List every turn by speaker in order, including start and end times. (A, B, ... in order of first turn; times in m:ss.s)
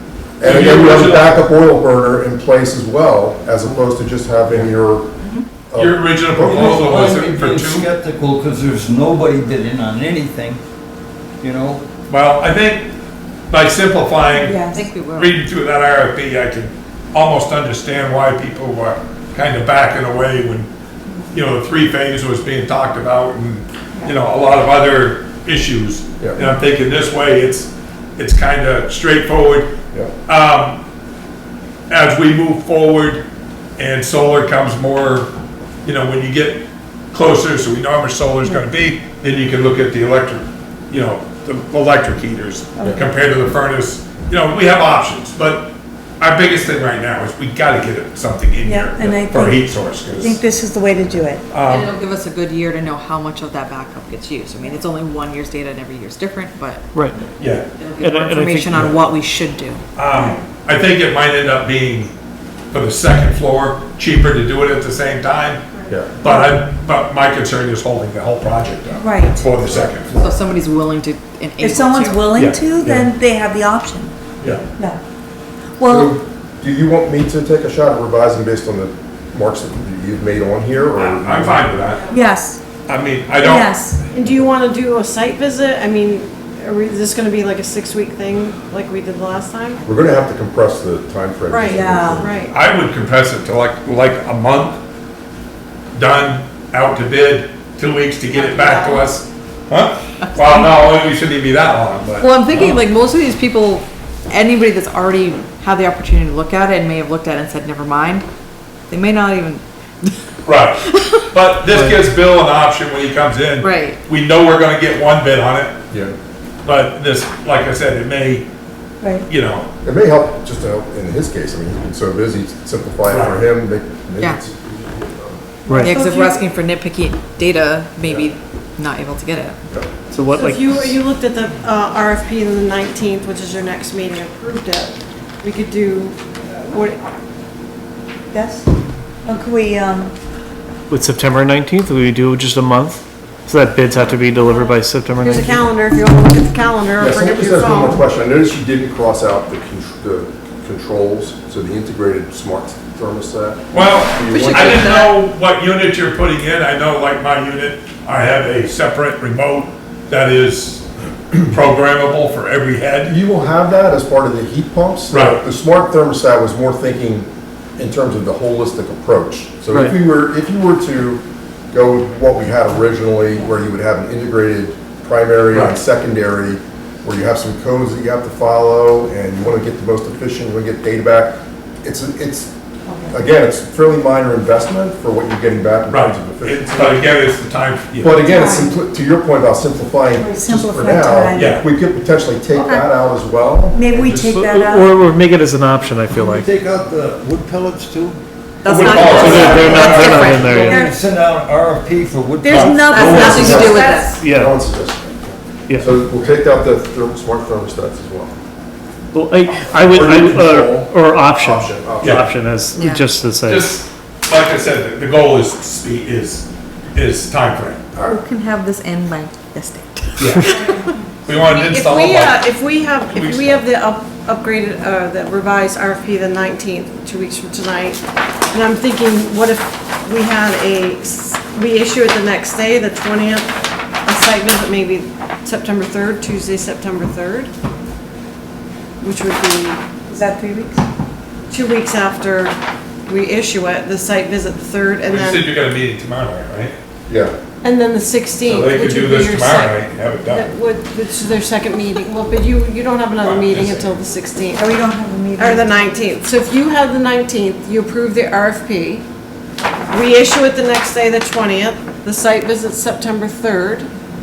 0:00.4-0:05.1 A
0:00.4-0:01.4 B
0:05.7-0:06.9 A
0:05.8-0:07.9 B
0:06.4-0:10.6 C
0:11.4-0:11.8 C
0:12.1-0:12.9 B
0:13.5-0:20.7 B
0:14.3-0:15.3 D
0:14.4-0:14.9 E
0:21.3-0:29.7 B
0:30.3-0:30.8 B
0:31.9-0:33.2 B
0:33.8-0:35.3 B
0:35.8-0:50.4 B
0:42.8-0:43.0 E
0:48.6-0:49.6 E
0:50.2-0:51.4 E
0:51.5-0:51.9 B
0:51.7-0:57.0 D
0:57.4-0:57.7 B
0:57.8-0:59.8 D
0:58.0-0:58.9 F
1:00.0-1:02.1 B
1:00.1-1:00.4 E
1:02.7-1:05.6 B
1:05.9-1:06.1 A
1:06.2-1:10.2 B
1:06.2-1:06.6 E
1:09.0-1:09.4 E
1:09.7-1:10.3 A
1:10.2-1:12.2 D
1:11.6-1:14.1 E
1:12.3-1:13.1 B
1:14.7-1:15.0 E
1:15.8-1:16.1 E
1:15.8-1:21.7 A
1:21.0-1:22.1 B
1:22.1-1:22.6 E
1:22.8-1:23.8 B
1:23.4-1:24.0 E
1:24.1-1:29.8 G
1:29.8-1:32.3 A
1:31.5-1:32.6 G
1:31.6-1:32.3 E
1:32.5-1:34.8 B
1:35.9-1:42.7 B
1:38.4-1:38.7 D
1:38.6-1:39.0 G
1:40.2-1:40.7 D
1:42.2-1:48.2 D
1:48.9-1:50.2 D
1:50.4-1:55.8 B
1:50.8-1:51.2 D
1:51.7-1:52.0 F
1:53.6-1:54.0 D
1:56.6-1:58.4 B
1:59.0-1:59.3 E
1:59.3-1:59.7 B
1:59.8-2:05.4 A
2:03.1-2:03.4 B
2:05.6-2:06.4 E
2:05.7-2:05.9 F
2:05.8-2:09.6 D
2:08.0-2:08.3 A
2:10.1-2:10.9 F
2:10.3-2:17.0 G
2:18.3-2:18.7 E
2:19.2-2:20.1 E
2:20.9-2:25.7 F
2:23.9-2:28.0 G
2:27.0-2:34.9 A
2:33.7-2:43.1 B
2:34.2-2:35.1 D
2:43.0-3:02.5 A
2:45.1-2:45.4 B
3:02.9-3:03.1 E
3:03.1-3:07.0 A
3:05.9-3:08.3 B
3:08.0-3:14.5 A
3:08.2-3:08.7 E
3:10.2-3:11.6 E
3:11.4-3:11.6 B
3:13.7-3:14.9 E
3:14.3-3:16.5 F
3:16.2-3:18.2 C
3:18.6-3:20.7 G
3:18.6-3:20.6 B
3:18.9-3:20.0 D
3:19.3-3:20.9 F
3:19.6-3:23.4 C
3:20.6-3:20.9 E
3:22.4-3:24.2 E
3:22.5-3:22.8 B
3:22.8-3:24.2 D
3:23.1-3:28.4 A
3:24.2-3:24.6 F
3:25.7-3:26.0 F
3:29.1-3:33.7 F
3:29.7-3:32.3 A
3:32.0-3:32.3 B
3:32.7-3:33.1 D
3:33.4-3:37.8 B
3:38.0-3:40.7 D
3:40.2-3:40.5 B
3:40.4-3:53.5 G
3:41.2-3:42.4 B
3:43.1-3:43.6 B
3:54.0-3:57.5 G
3:59.0-3:59.8 G
4:00.1-4:00.8 E
4:01.5-4:02.5 G
4:03.0-4:05.5 G
4:05.0-4:06.8 B
4:07.1-4:07.3 A
4:07.6-4:19.0 G
4:08.4-4:10.5 B
4:13.2-4:14.0 B
4:14.5-4:15.7 E
4:19.9-4:23.9 G